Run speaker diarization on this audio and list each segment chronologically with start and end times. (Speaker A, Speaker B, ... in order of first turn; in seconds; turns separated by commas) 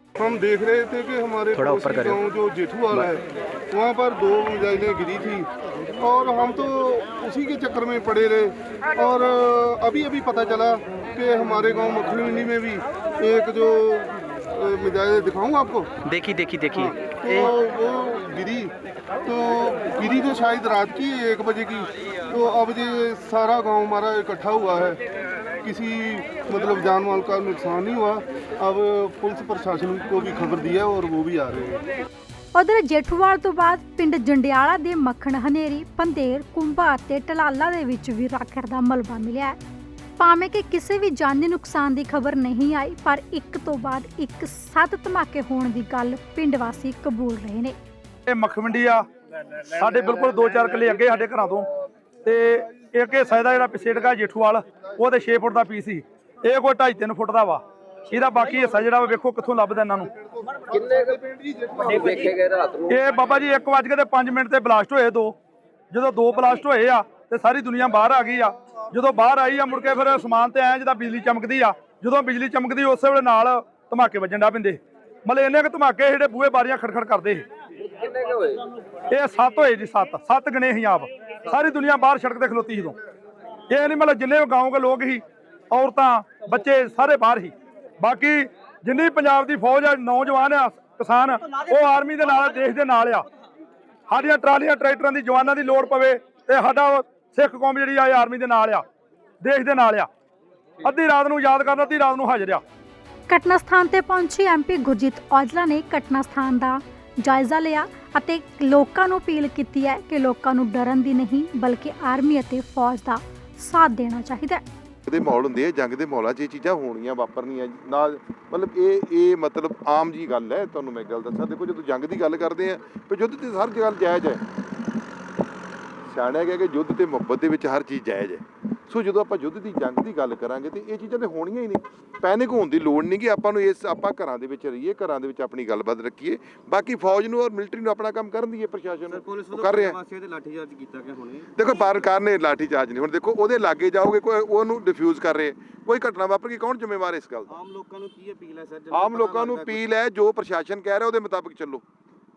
Speaker A: 0.2-15.9, Speaker B: 1.5-2.2, Speaker B: 16.0-17.4, Speaker A: 16.7-18.7, Speaker A: 19.2-25.0, Speaker A: 25.6-31.8, Speaker C: 32.5-39.6, Speaker C: 40.2-47.8, Speaker D: 48.3-49.0, Speaker D: 49.7-51.6, Speaker D: 52.2-60.1, Speaker A: 60.7-62.1, Speaker B: 61.9-62.7, Speaker D: 62.0-65.3, Speaker D: 65.9-77.5, Speaker D: 79.1-83.0, Speaker D: 83.7-93.2, Speaker D: 94.1-98.8, Speaker D: 99.4-100.1, Speaker D: 100.8-102.6, Speaker C: 103.3-114.6, Speaker E: 115.1-124.4, Speaker E: 126.1-140.0, Speaker F: 139.1-141.5, Speaker E: 141.6-147.5, Speaker F: 147.5-149.8, Speaker E: 148.9-151.8